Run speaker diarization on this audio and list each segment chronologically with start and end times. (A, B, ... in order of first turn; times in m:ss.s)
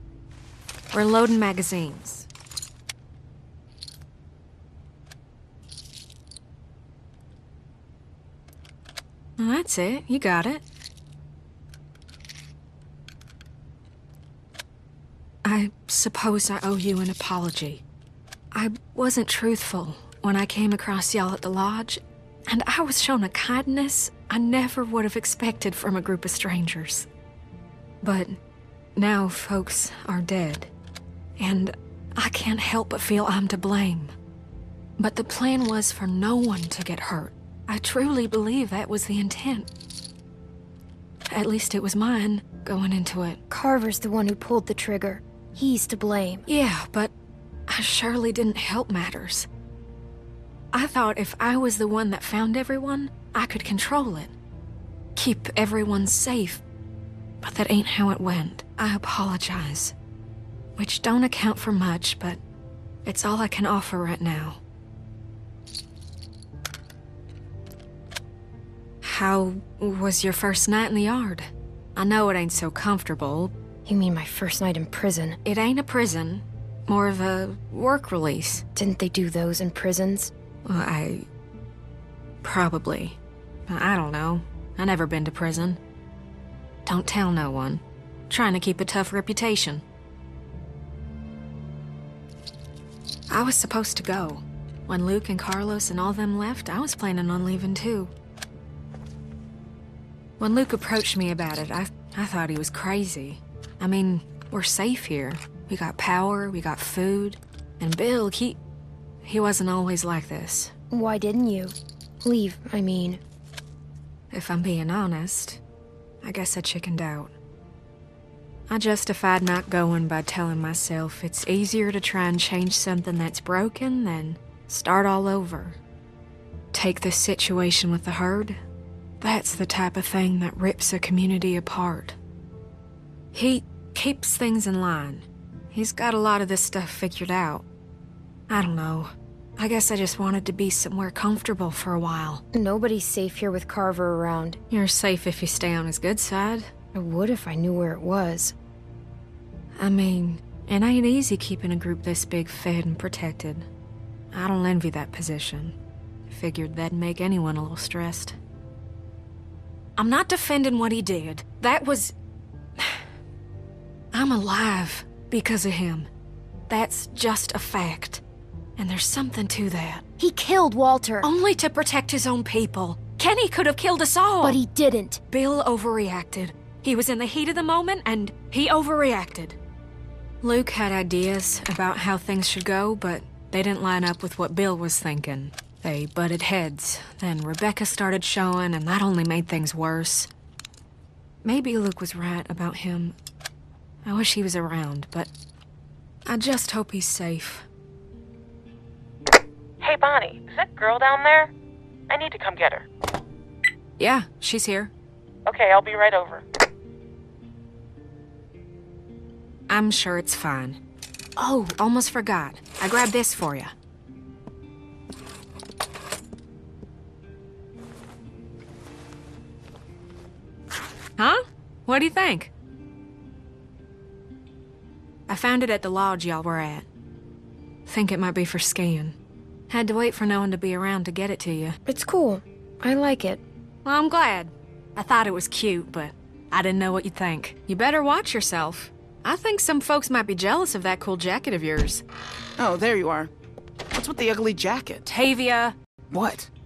0:00.9-0:02.3 A
0:09.4-0:10.6 A
0:15.4-0:17.8 A
0:18.5-0:27.1 A
0:28.0-0:28.4 A
0:29.0-0:30.7 A
0:31.4-0:34.1 A
0:35.0-0:39.7 A
0:41.3-0:43.4 A
0:43.5-0:46.4 B
0:46.5-0:47.1 A
0:47.7-0:49.5 A
0:50.7-0:54.3 A
0:55.2-0:56.6 A
0:57.4-0:59.9 A
1:00.8-1:02.4 A
1:03.0-1:04.6 A
1:09.0-1:13.5 A
1:13.9-1:15.4 B
1:15.4-1:18.6 A
1:18.8-1:20.3 B
1:20.7-1:21.3 A
1:22.4-1:23.2 A
1:23.7-1:25.8 A
1:26.9-1:29.8 A
1:33.3-1:38.1 A
1:40.4-1:48.6 A
1:49.2-1:50.7 A
1:50.9-1:53.2 B
1:54.3-1:55.6 A
1:56.2-1:57.3 A
1:58.7-2:05.8 A
2:06.7-2:08.6 A
2:09.2-2:12.2 A
2:13.3-2:17.7 A
2:18.5-2:22.4 A
2:22.5-2:24.6 B
2:24.7-2:26.7 A
2:26.9-2:28.6 B
2:29.8-2:33.7 A
2:34.3-2:35.8 A
2:36.3-2:38.4 A
2:40.0-2:42.1 A
2:44.1-2:46.1 A
2:46.7-2:48.2 A
2:48.8-2:50.0 A
2:50.2-2:51.3 B
2:51.2-2:54.6 A
2:54.4-2:55.2 B
2:55.3-2:59.6 A
3:00.4-3:10.3 A
3:11.4-3:13.2 A
3:14.0-3:15.3 A
3:16.3-3:17.7 A
3:19.8-3:21.5 C
3:22.1-3:22.9 C
3:24.0-3:24.9 A
3:25.5-3:26.4 C
3:29.7-3:30.8 A
3:31.4-3:33.7 A
3:41.2-3:42.5 A
3:45.3-3:46.9 A
3:47.9-3:49.2 A
3:49.7-3:51.8 A
3:51.9-3:53.4 B
3:53.8-4:02.0 A
4:02.6-4:03.3 D
4:03.9-4:05.1 D
4:05.1-4:05.8 A
4:06.1-4:06.5 D